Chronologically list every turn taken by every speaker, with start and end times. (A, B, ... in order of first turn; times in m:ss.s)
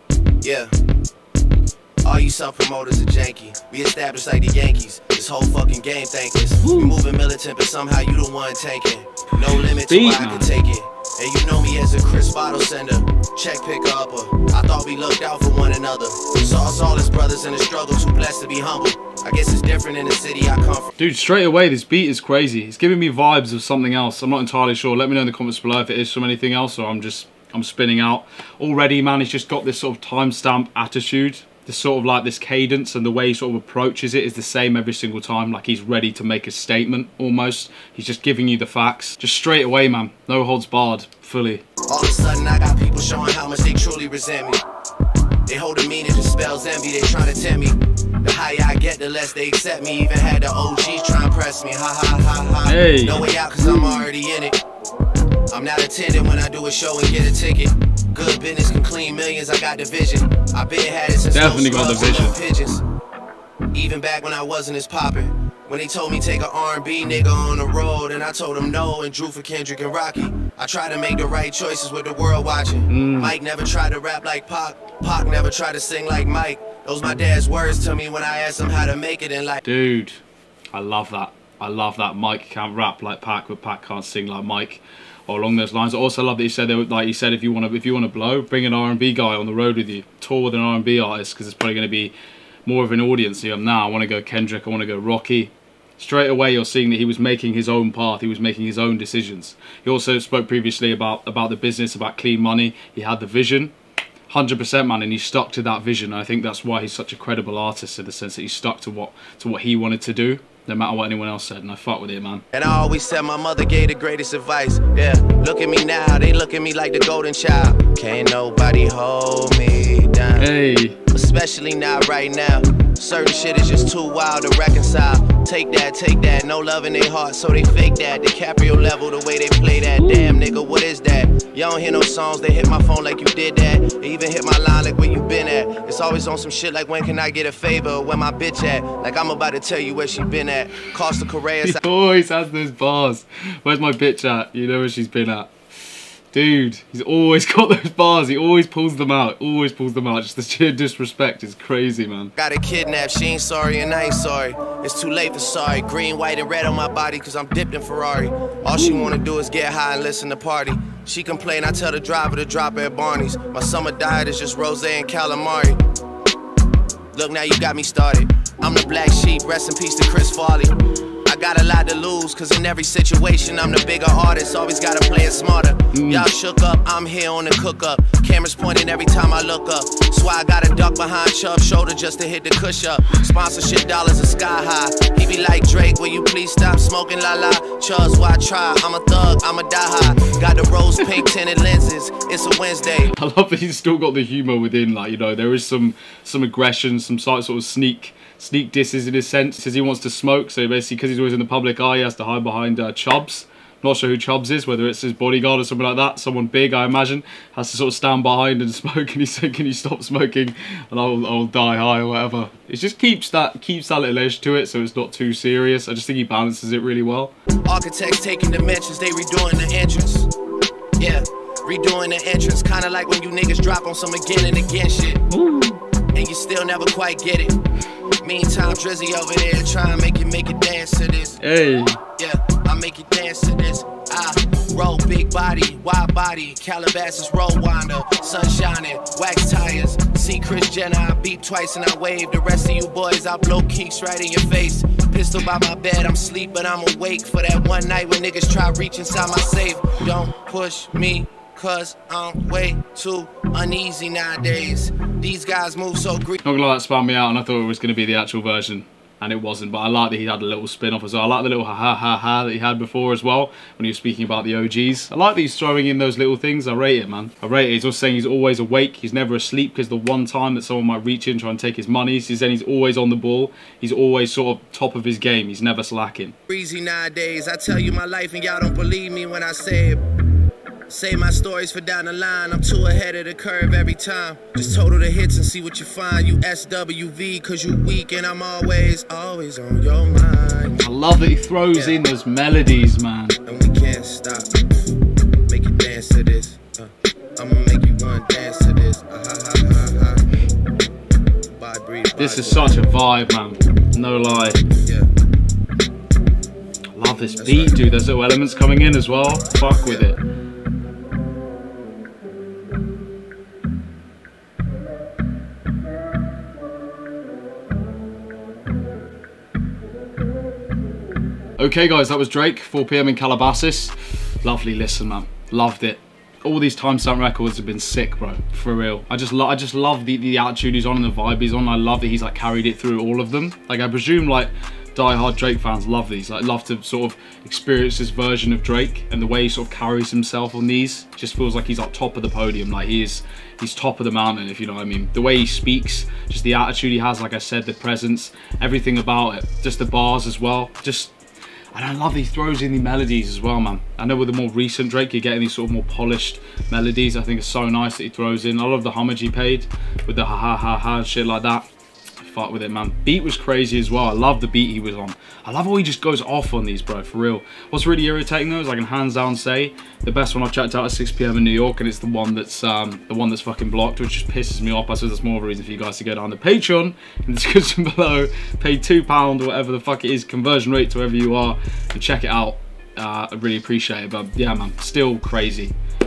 0:00.4-0:00.7 A
0:02.0-0:20.9 A
0:06.6-0:07.0 B
0:09.6-0:10.5 B
0:21.0-0:41.6 B
0:41.9-0:44.6 A
0:45.5-0:54.6 A
0:52.6-0:53.3 B
0:55.5-1:02.8 A
1:01.3-1:02.4 B
1:03.7-1:19.6 A
1:12.9-1:13.4 B
1:19.6-1:20.2 B
1:20.7-1:32.1 B
1:32.7-1:43.7 B
1:44.3-1:52.4 B
1:52.5-2:00.5 A
2:00.4-2:01.0 B
2:01.1-2:21.8 A
2:21.6-2:25.5 B
2:26.3-2:32.3 B
2:32.4-2:45.8 A
2:47.1-3:13.1 A
2:55.9-2:56.3 B
3:13.1-3:37.3 B
3:37.7-3:40.3 A
3:41.0-3:45.3 A
3:45.3-3:45.8 B
3:46.1-3:47.6 A
3:48.2-3:51.4 A
3:51.4-3:52.0 B
3:52.2-4:16.4 A
4:16.4-4:36.4 B
4:36.5-4:40.0 A
4:40.9-4:50.8 A
4:50.8-4:53.4 B
4:51.7-4:52.0 A
4:53.5-4:54.6 A
4:55.5-5:00.3 A
5:01.5-5:02.9 A
5:02.2-5:04.6 B
5:04.2-5:05.1 A
5:07.0-5:10.2 B
5:07.4-5:07.8 A
5:09.7-5:10.1 A
5:21.6-5:51.1 B
5:51.7-6:01.7 B
6:02.2-6:25.8 B